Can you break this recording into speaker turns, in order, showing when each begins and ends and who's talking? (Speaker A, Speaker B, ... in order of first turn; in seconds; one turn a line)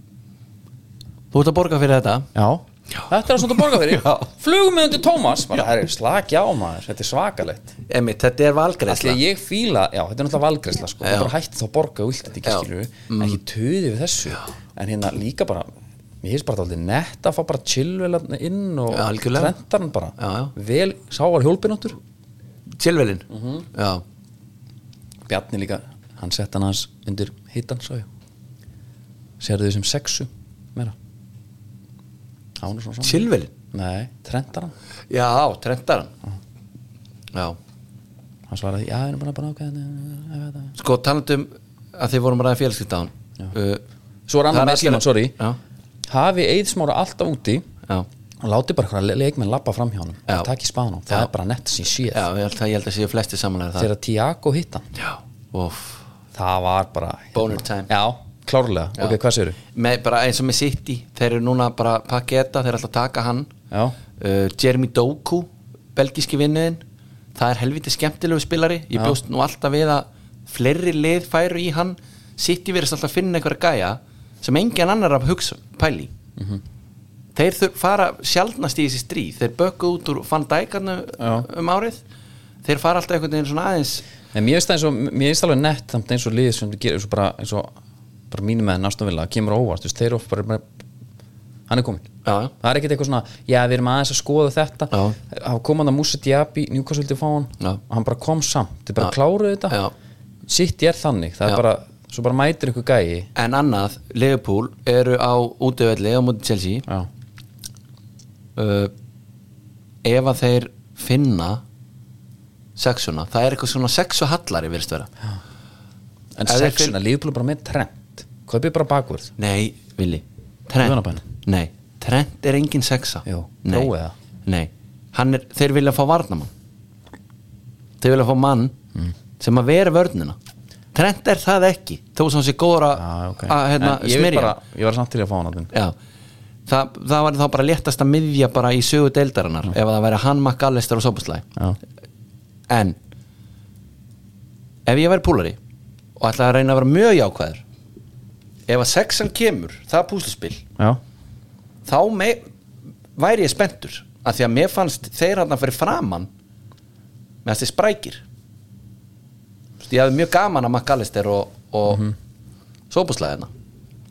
Speaker A: 1.3-2.3
Speaker B: 2.4-7.7
Speaker A: 3.9-4.2
Speaker A: 7.9-9.2
Speaker B: 8.9-15.7
Speaker A: 11.0-11.3
Speaker A: 12.4-13.4
Speaker B: 16.2-22.0
Speaker A: 18.9-19.6
Speaker A: 20.2-20.6
Speaker A: 22.8-24.0
Speaker B: 23.3-23.6
Speaker B: 25.3-28.1
Speaker B: 29.4-30.9
Speaker B: 32.6-34.7
Speaker A: 33.0-33.5
Speaker A: 35.1-36.1
Speaker A: 37.3-37.6
Speaker B: 38.5-40.7
Speaker A: 40.8-43.8
Speaker B: 44.3-45.4
Speaker A: 44.5-45.6
Speaker B: 46.1-47.7
Speaker B: 48.4-52.3
Speaker A: 52.1-53.9
Speaker B: 53.8-54.9
Speaker A: 55.0-56.0
Speaker B: 56.3-59.6
Speaker A: 57.3-57.9
Speaker A: 59.7-63.5
Speaker B: 63.7-64.0
Speaker A: 64.2-66.8
Speaker A: 67.3-76.1
Speaker A: 77.3-82.0
Speaker B: 81.2-81.5
Speaker A: 82.7-84.0
Speaker B: 84.3-87.7
Speaker B: 88.3-90.7
Speaker B: 91.7-92.1
Speaker A: 92.2-92.5
Speaker B: 92.6-99.8
Speaker A: 94.9-95.2
Speaker B: 100.5-103.3
Speaker A: 103.3-106.9
Speaker A: 108.6-108.9
Speaker A: 110.0-111.6
Speaker A: 112.8-115.1
Speaker B: 116.4-119.3
Speaker A: 116.5-117.0
Speaker A: 119.4-123.9
Speaker B: 120.8-121.2
Speaker B: 123.3-124.2
Speaker A: 124.5-126.5
Speaker A: 128.0-128.8
Speaker A: 129.4-130.4
Speaker A: 130.9-134.6
Speaker B: 133.0-135.7
Speaker A: 136.7-141.4
Speaker A: 142.7-143.0
Speaker A: 144.9-145.6
Speaker A: 146.2-147.6
Speaker A: 148.7-150.7
Speaker A: 151.9-152.4
Speaker A: 153.2-156.3
Speaker A: 157.4-158.2
Speaker A: 159.8-162.1
Speaker A: 162.9-163.5